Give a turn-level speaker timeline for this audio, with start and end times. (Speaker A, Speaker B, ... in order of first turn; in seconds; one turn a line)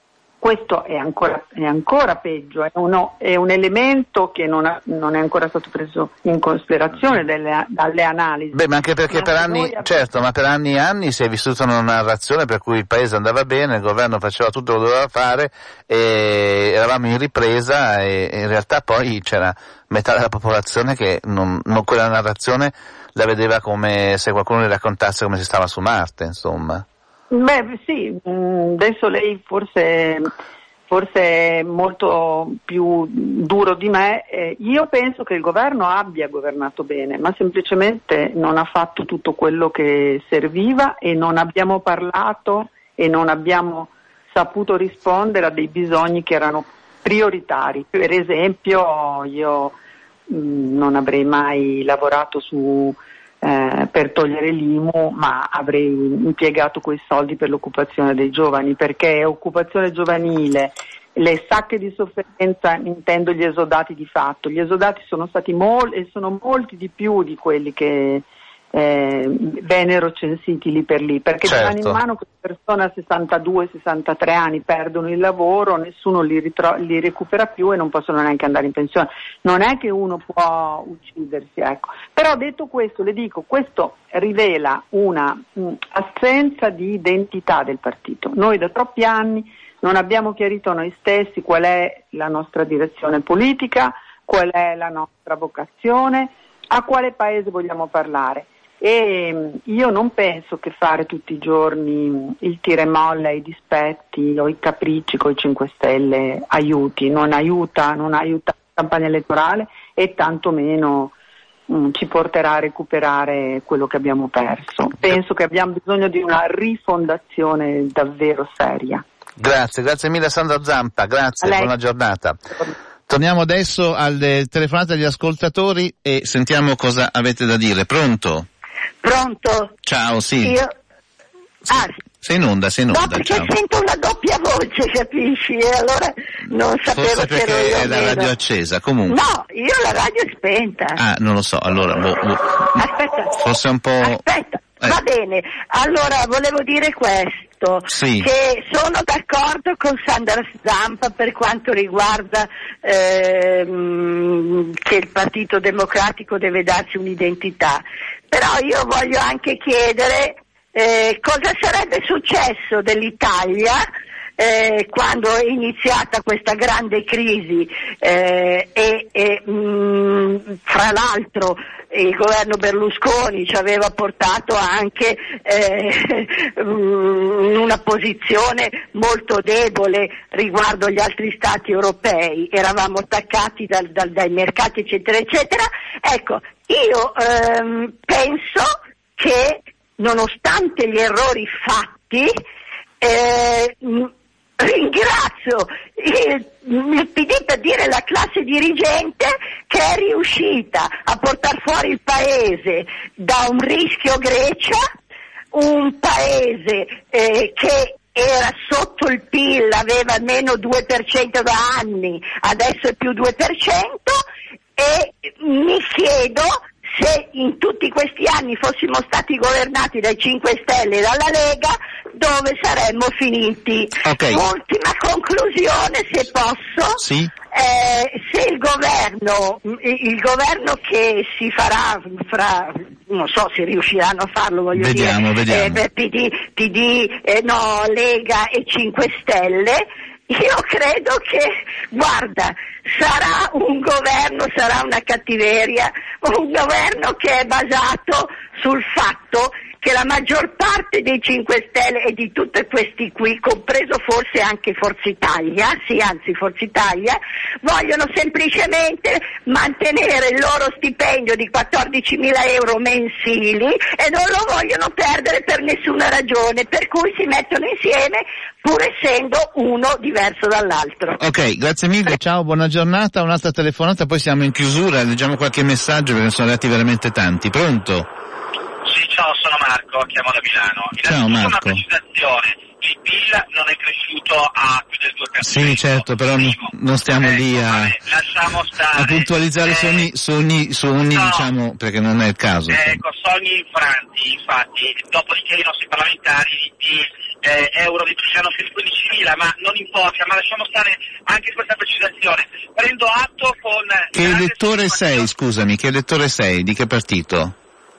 Speaker A: 0.4-10.1
Speaker B: 8.5-26.8
Speaker A: 27.3-30.3
Speaker A: 30.9-49.8
Speaker A: 50.3-111.1
Speaker B: 71.4-72.0
Speaker A: 111.7-119.0
Speaker B: 119.4-122.4
Speaker A: 121.4-121.7
Speaker B: 123.1-128.4
Speaker C: 129.0-129.8
Speaker B: 129.8-130.6
Speaker C: 130.4-130.7
Speaker C: 131.7-132.0
Speaker B: 131.7-133.5
Speaker C: 132.9-138.3
Speaker B: 136.9-139.2
Speaker C: 139.1-141.0
Speaker B: 140.9-142.5
Speaker C: 142.7-143.4
Speaker B: 143.4-144.2
Speaker C: 144.0-163.8
Speaker B: 147.9-148.3
Speaker C: 164.4-192.4
Speaker C: 193.0-204.8
Speaker C: 205.5-214.2
Speaker C: 214.8-271.2
Speaker B: 224.0-224.4
Speaker B: 227.0-227.3
Speaker B: 234.7-235.8
Speaker B: 271.2-278.1
Speaker D: 278.9-285.9
Speaker B: 281.0-281.8
Speaker B: 285.4-288.0
Speaker D: 287.2-290.0
Speaker B: 288.9-293.0
Speaker D: 291.1-291.4
Speaker D: 292.7-305.2
Speaker B: 304.1-307.5